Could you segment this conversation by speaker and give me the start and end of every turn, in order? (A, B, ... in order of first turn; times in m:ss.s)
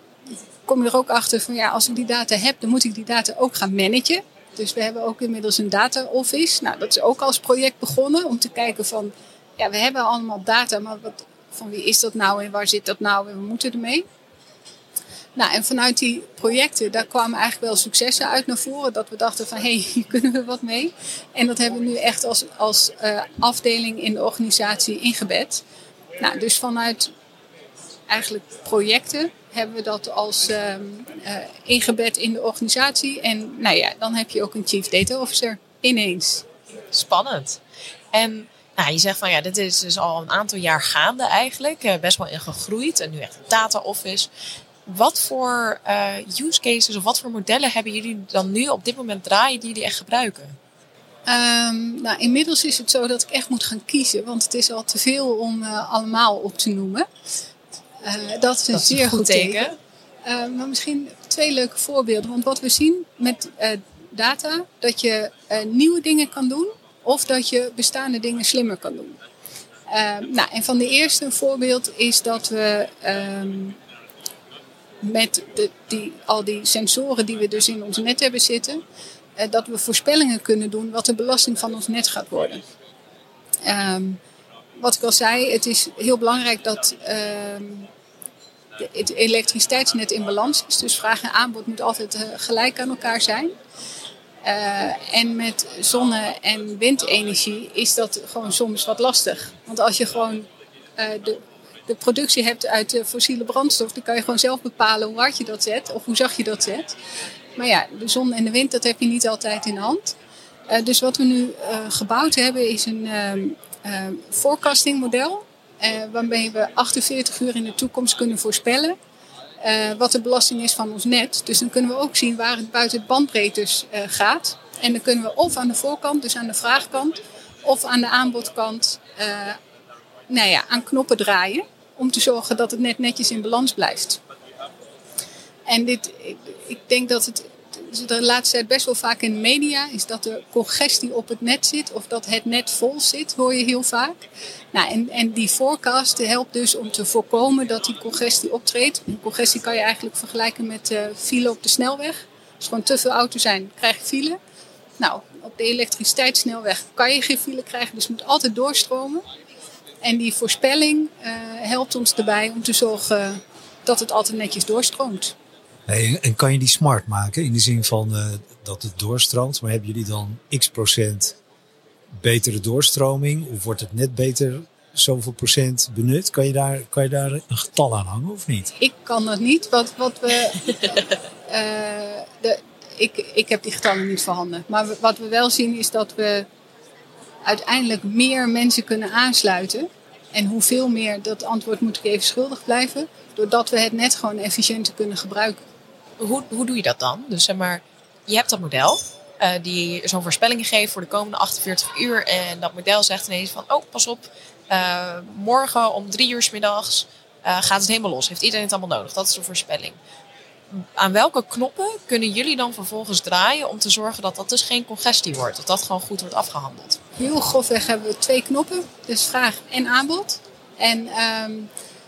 0:00.6-0:14.0 A
0:15.4-0:25.6 A
0:26.2-0:27.1 A
0:28.1-0:36.5 A
0:36.9-0:37.6 B
0:38.1-0:44.3 B
0:44.9-0:50.6 B
0:51.3-0:57.1 A
0:58.0-0:59.6 A
0:58.7-0:59.7 B
1:00.2-1:09.2 A
1:09.9-1:13.8 A
1:15.0-1:18.8 A
1:19.4-1:22.6 A
1:23.6-1:24.2 A
1:24.8-1:27.9 A
1:28.8-1:33.5 A
1:34.4-1:46.9 A
1:47.6-1:50.2 A
1:50.7-1:59.0 A
1:59.6-2:09.6 A
2:10.3-2:14.2 A
2:15.7-2:34.4 A
2:35.0-2:39.2 A
2:40.0-2:45.4 A
2:45.9-2:51.4 C
2:52.2-2:58.7 C
2:58.8-3:06.5 A
3:07.4-3:15.6 A
3:16.2-3:30.0 B
3:30.7-3:37.0 B
3:37.2-3:41.7 A